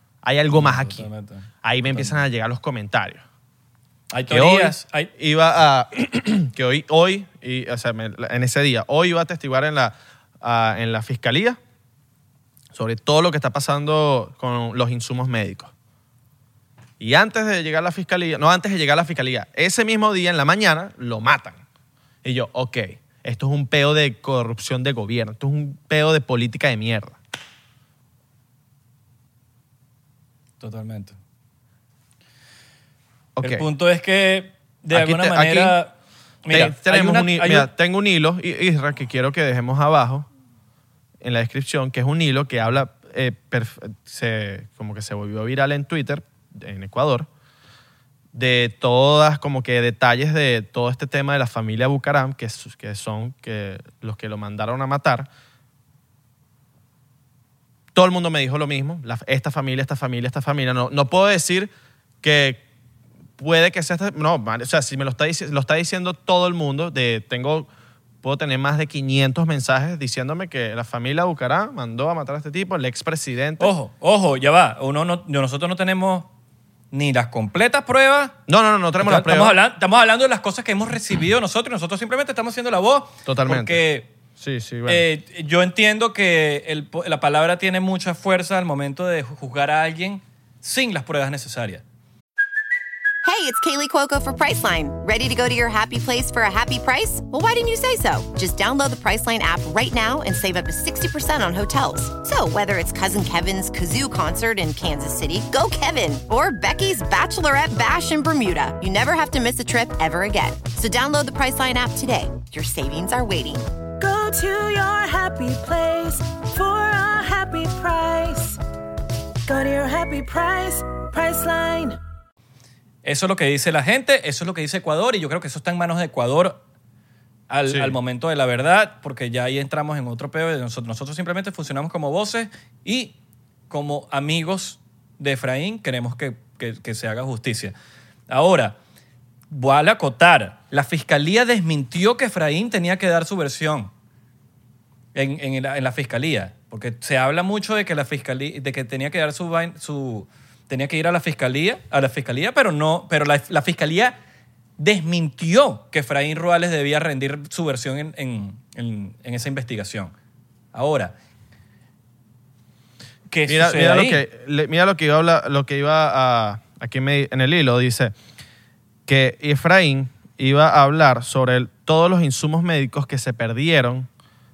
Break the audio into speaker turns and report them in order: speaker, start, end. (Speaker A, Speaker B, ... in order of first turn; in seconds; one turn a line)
Speaker A: 0.2-1.1
Speaker B: 0.5-2.2
Speaker A: 1.6-3.2
Speaker B: 4.1-5.1
Speaker A: 4.3-11.6
Speaker A: 12.7-15.7
Speaker A: 17.0-21.6
Speaker A: 22.2-27.2
Speaker B: 30.6-31.2
Speaker A: 33.4-33.6
Speaker B: 33.4-35.9
Speaker A: 34.9-35.8
Speaker B: 36.4-37.7
Speaker A: 36.5-40.3
Speaker A: 41.2-47.3
Speaker A: 48.3-55.3
Speaker A: 57.9-61.7
Speaker A: 62.2-62.6
Speaker A: 63.4-67.7
Speaker A: 68.2-73.7
Speaker B: 73.6-76.3
Speaker B: 76.9-78.4
Speaker A: 78.5-79.6
Speaker B: 79.0-84.1
Speaker A: 83.2-83.8
Speaker A: 84.4-85.0
Speaker B: 84.9-91.8
Speaker C: 93.2-113.7
Speaker D: 114.0-118.6
Speaker D: 119.5-122.0
Speaker B: 123.0-126.6
Speaker B: 127.5-133.1
Speaker A: 127.7-128.0
Speaker B: 133.7-137.8
Speaker B: 138.3-138.8
Speaker B: 139.5-143.9
Speaker B: 145.1-154.2
Speaker B: 154.8-160.1
Speaker B: 160.7-161.1
Speaker B: 163.3-164.2
Speaker A: 163.5-168.1
Speaker A: 169.1-174.1